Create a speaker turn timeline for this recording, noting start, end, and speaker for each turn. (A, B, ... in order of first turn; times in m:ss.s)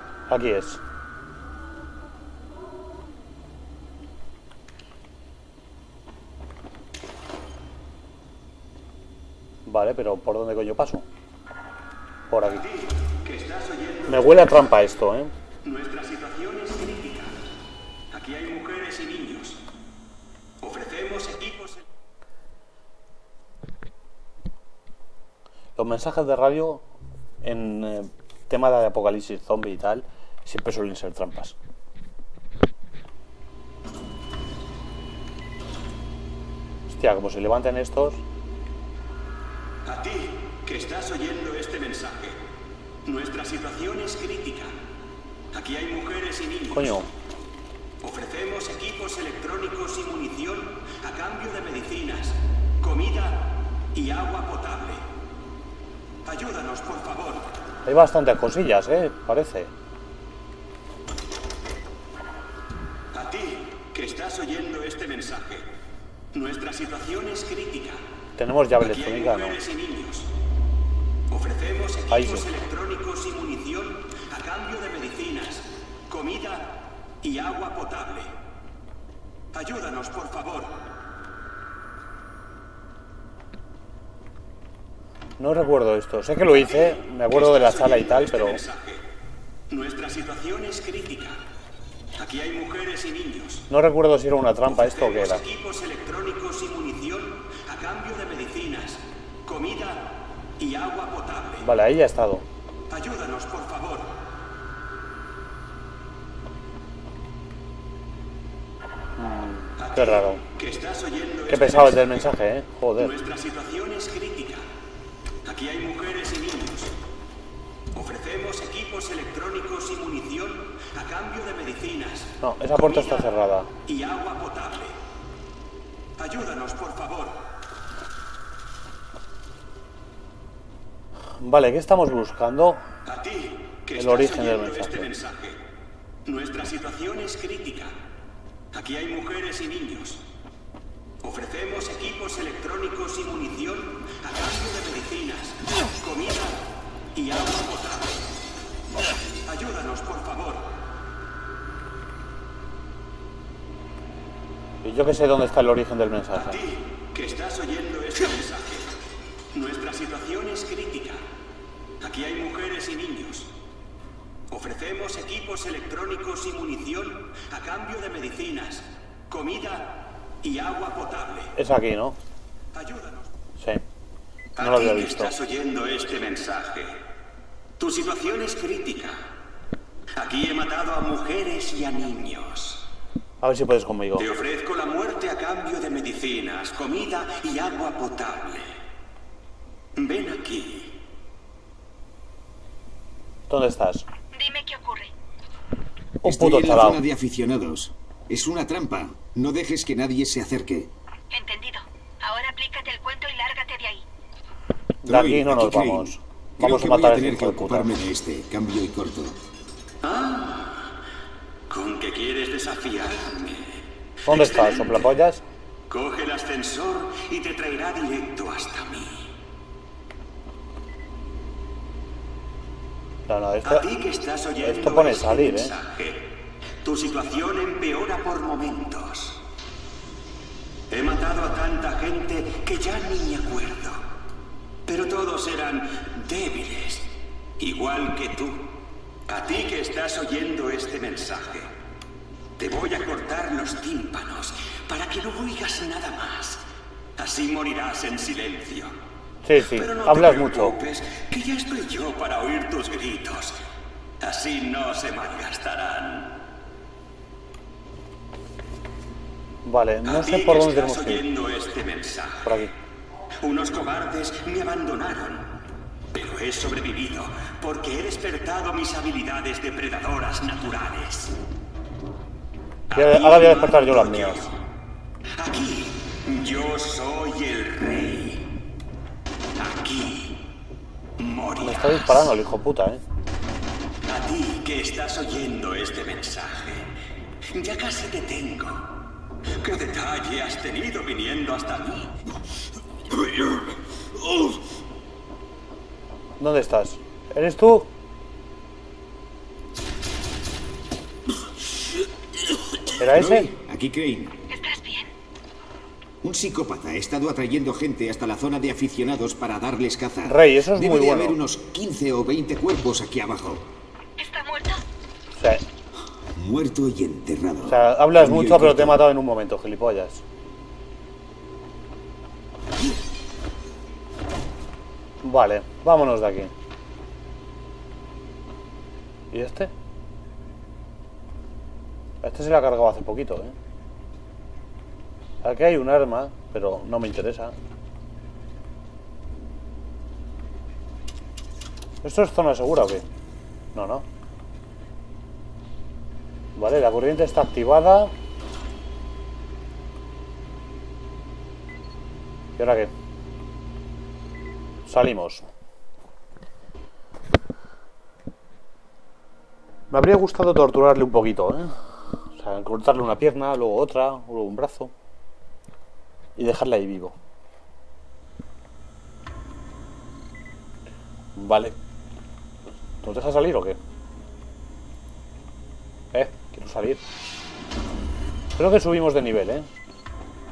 0:00.3-0:00.8 A
0:09.6-0:11.1 A
0:12.3-0:12.6 A
0:12.5-0:14.7 B
0:14.1-0:15.3 A
0:15.6-0:17.4 B
0:18.1-0:19.6 B
0:20.6-0:21.8 B
0:25.8-0:26.8 A
0:27.4-0:31.6 A
0:36.9-0:38.2 A
0:39.8-0:42.4 B
0:43.0-0:44.7 B
0:45.5-0:47.0 B
0:46.7-0:47.1 A
0:48.0-0:55.0 B
0:56.2-0:57.5 B
0:57.8-0:59.7 A
1:03.1-1:05.7 B
1:06.3-1:08.0 B
1:08.4-1:09.6 A
1:08.8-1:10.3 B
1:11.3-1:18.3 B
1:12.1-1:12.4 A
1:19.5-1:20.8 B
1:25.4-1:28.6 A
1:26.4-1:29.0 B
1:29.7-1:31.4 B
1:32.1-1:33.6 B
1:33.7-1:35.4 A
1:34.6-1:41.7 B
1:41.6-1:42.4 A
1:42.9-1:44.2 B
1:49.2-1:50.4 A
1:49.8-1:52.3 B
1:51.5-1:53.1 A
1:53.0-1:54.6 B
1:55.4-1:56.9 B
1:57.9-2:03.3 B
2:02.4-2:03.7 A
2:03.8-2:04.9 B
2:06.2-2:07.4 B
2:11.4-2:12.9 A
2:13.0-2:15.6 B
2:13.9-2:15.1 A
2:16.2-2:17.9 B
2:18.7-2:20.2 B
2:21.2-2:28.2 B
2:29.4-2:30.7 B
2:34.8-2:36.6 A
2:36.3-2:38.9 B
2:39.5-2:41.2 B
2:42.0-2:43.5 B
2:44.5-2:51.5 B
2:51.5-2:52.2 A
2:52.7-2:53.3 B
2:53.6-2:53.8 A
2:54.6-2:57.0 B
2:54.6-2:55.3 A
2:57.8-2:59.2 B
3:00.2-3:02.8 B
3:03.4-3:04.3 A
3:04.2-3:08.7 B
3:10.0-3:11.0 B
3:13.5-3:14.0 A
3:14.3-3:15.1 C
3:16.2-3:17.0 A
3:16.2-3:20.9 D
3:21.3-3:24.0 C
3:25.0-3:28.0 A
3:25.0-3:29.4 D
3:30.0-3:30.9 B
3:31.7-3:35.2 B
3:34.2-3:35.4 A
3:35.9-3:39.3 B
3:43.3-3:43.8 A
3:43.6-3:49.4 B
3:44.6-3:45.8 A
3:50.9-3:54.0 B
3:54.9-4:01.7 B
4:02.6-4:06.6 B
4:07.2-4:08.9 B
4:09.4-4:10.8 A
4:09.6-4:13.6 B
4:14.2-4:16.4 B
4:19.6-4:21.2 A
4:20.0-4:22.7 B
4:22.4-4:22.7 A
4:23.4-4:25.5 B
4:26.1-4:31.4 B
4:32.9-4:34.6 B
4:32.9-4:34.5 A
4:35.4-4:38.5 B
4:39.6-4:40.4 B
4:41.2-4:42.3 B
4:41.6-4:43.0 A
4:44.0-4:46.9 B
4:47.5-4:48.9 B
4:49.6-4:52.2 B
4:56.4-4:57.9 A
5:03.0-5:03.5 A
5:03.1-5:04.4 D
5:04.5-5:05.1 C
5:06.2-5:13.7 D
5:10.2-5:11.4 A
5:14.2-5:14.8 C
5:15.3-5:15.6 A
5:16.3-5:19.1 D
5:17.6-5:20.2 A
5:25.2-5:26.5 A
5:29.3-5:29.7 A
5:32.2-5:33.6 A
5:35.4-5:37.5 A
5:42.0-5:43.0 A
5:43.7-5:44.0 A
5:46.6-5:48.1 A
5:52.6-5:52.9 A
5:54.9-5:55.4 A
5:59.9-6:01.8 A
6:02.3-6:04.9 A
6:06.4-6:07.2 A
6:11.4-6:11.7 A
6:13.0-6:13.8 A
6:16.1-6:17.0 A
6:18.6-6:19.7 A